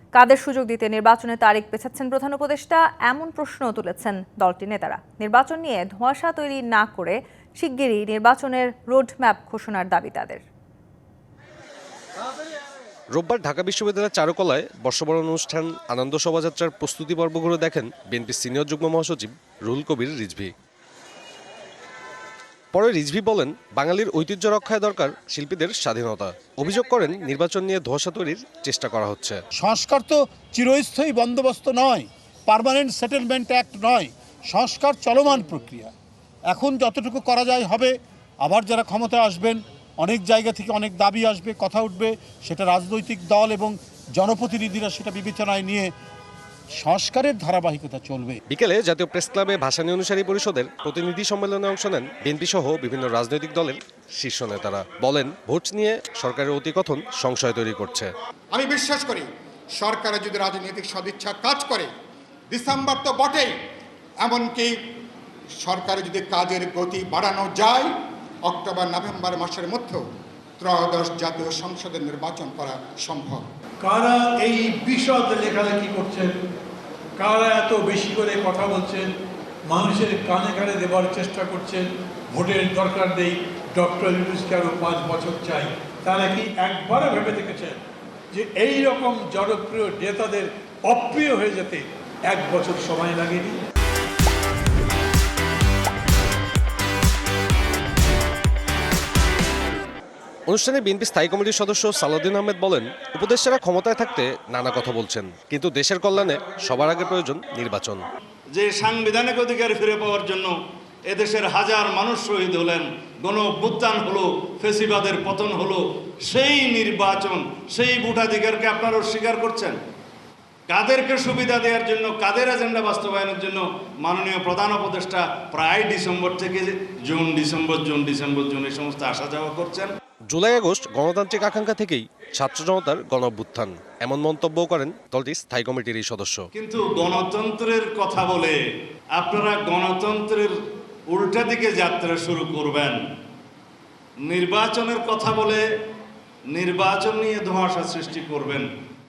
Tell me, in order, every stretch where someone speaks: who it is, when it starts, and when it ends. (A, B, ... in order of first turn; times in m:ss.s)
0:00.2-0:10.4 A
0:13.1-0:20.5 B
0:22.7-0:29.4 B
0:29.6-0:35.9 C
0:36.5-0:45.9 C
0:46.8-0:48.4 C
0:48.5-0:58.1 B
0:58.5-1:01.9 D
1:02.5-1:03.5 D
1:04.2-1:04.7 D
1:05.6-1:07.9 D
1:08.4-1:10.0 D
1:10.6-1:13.4 D
1:13.8-1:16.4 E
1:17.2-1:33.6 E
1:40.5-1:48.1 B
1:48.6-1:50.5 F
1:51.1-1:59.8 F
2:00.7-2:09.9 F
2:10.3-2:16.5 B
2:16.5-2:18.6 F
2:19.2-2:20.5 F
2:21.1-2:23.0 F
2:24.3-2:25.6 F
2:26.5-2:28.6 F